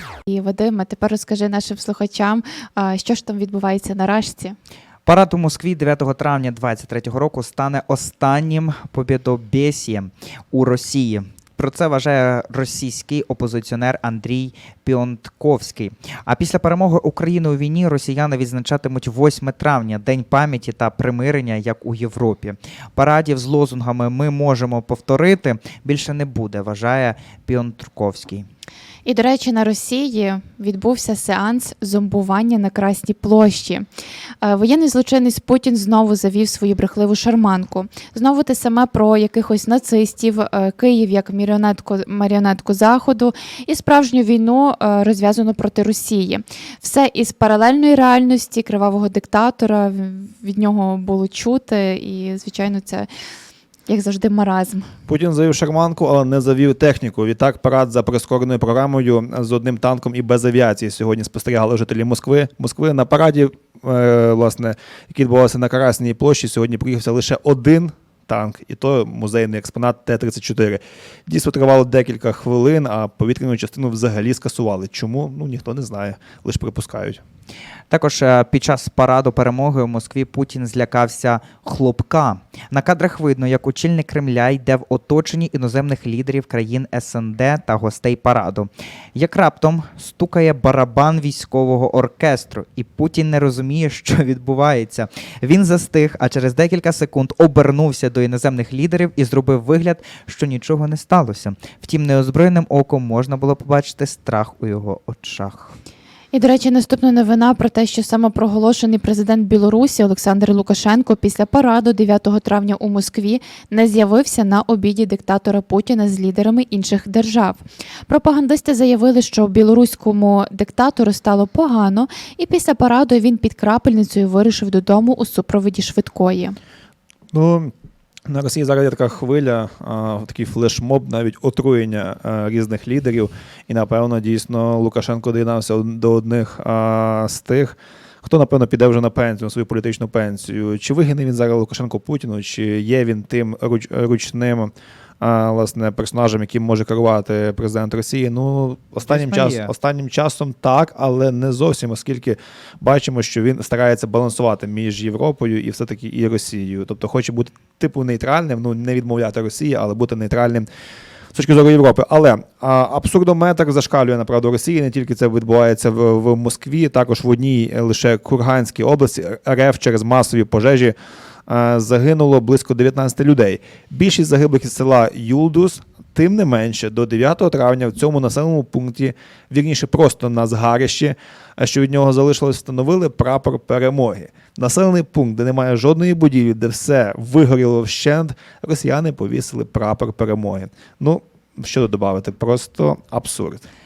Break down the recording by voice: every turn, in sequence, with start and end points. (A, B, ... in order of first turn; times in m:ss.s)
0:00.3-0:04.5 A
0:05.0-0:28.4 B
0:29.0-0:33.8 A
0:34.4-0:53.1 A
0:53.9-0:54.9 A
0:55.1-1:17.2 C
1:17.9-1:45.7 B
1:46.3-2:06.6 A
2:07.3-2:07.7 C
2:08.3-2:40.7 C
2:29.0-2:29.7 B
2:41.3-2:50.9 C
2:51.5-3:13.6 C